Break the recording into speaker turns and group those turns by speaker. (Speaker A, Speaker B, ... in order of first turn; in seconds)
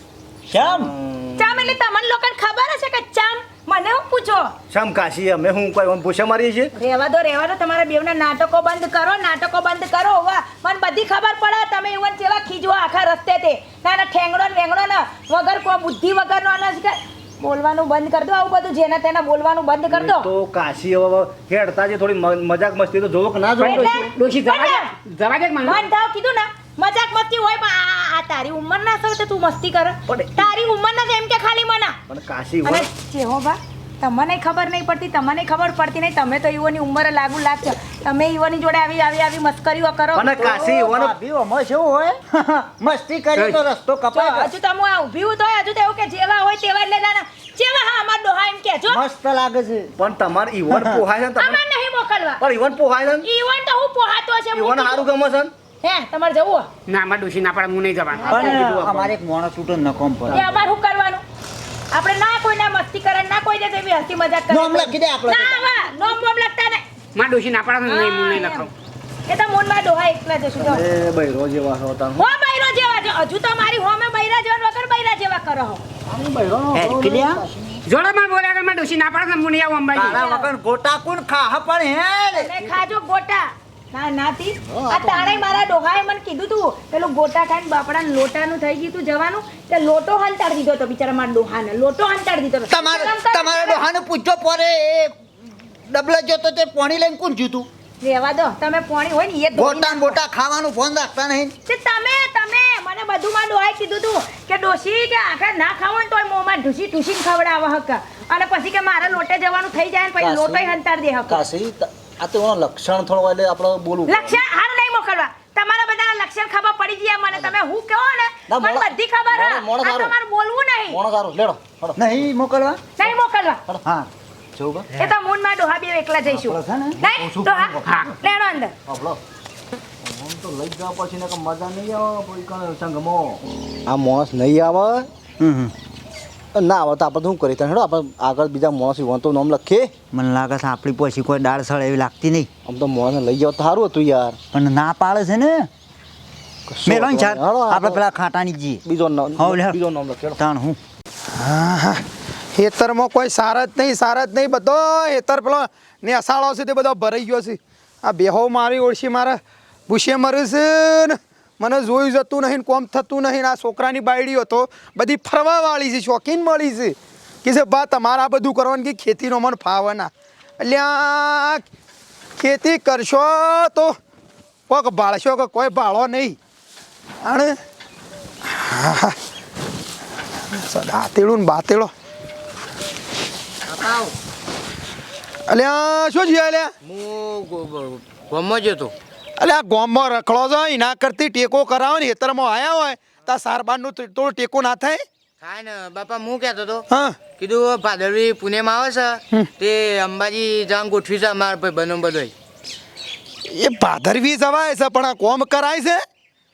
Speaker A: 0.5-0.9, 40.4-44.5, 48.9-49.9, 50.7-51.0, 58.2-60.4, 64.5-65.6, 76.7-77.4, 79.9-82.8, 92.7-95.2, 95.9-97.7, 99.5-101.5, 122.0-122.9, 123.8-124.1, 126.3-128.0, 135.4-135.7, 140.1-142.5, 144.5-145.7, 146.8-148.8, 149.3-149.8, 150.4-150.8
Speaker B: 0.6-1.8, 4.7-6.7, 19.9-24.1, 30.1-30.5, 32.1-32.9, 40.1-41.1, 50.0-51.6, 52.4-53.2, 54.5-55.5, 58.2-59.1, 70.6-72.3, 76.0-77.8, 84.7-85.6, 110.2-110.7, 111.3-114.4, 118.5-120.1, 120.9-122.3, 124.5-124.9, 128.9-129.2, 130.0-135.1, 136.5-139.9, 142.7-144.4, 146.7-148.0, 148.8-150.4
Speaker C: 1.4-4.5, 6.7-20.3, 23.6-24.9, 25.6-32.0, 32.6-40.5, 44.1-49.0, 51.4-52.4, 53.2-55.0, 55.8-56.7, 58.2-58.6, 60.3-61.2, 61.9-66.8, 67.9-68.7, 69.3-70.8, 72.2-75.8, 80.0-80.5, 82.4-93.8, 98.0-100.2, 101.7-111.4, 114.1-121.0, 123.0-123.6, 125.0-128.7
Speaker D: 23.6-25.9, 56.9-58.3, 67.2-68.7, 77.9-80.2, 127.8-128.1
Speaker E: 151.3-152.0, 152.5-171.6, 172.4-173.9, 174.7-176.4, 177.2-177.6, 178.5-179.2, 180.5-181.9, 185.5-186.7, 189.4-195.0, 196.9-197.2, 203.5-206.0
Speaker F: 183.7-184.1, 186.8-188.9, 195.4-202.3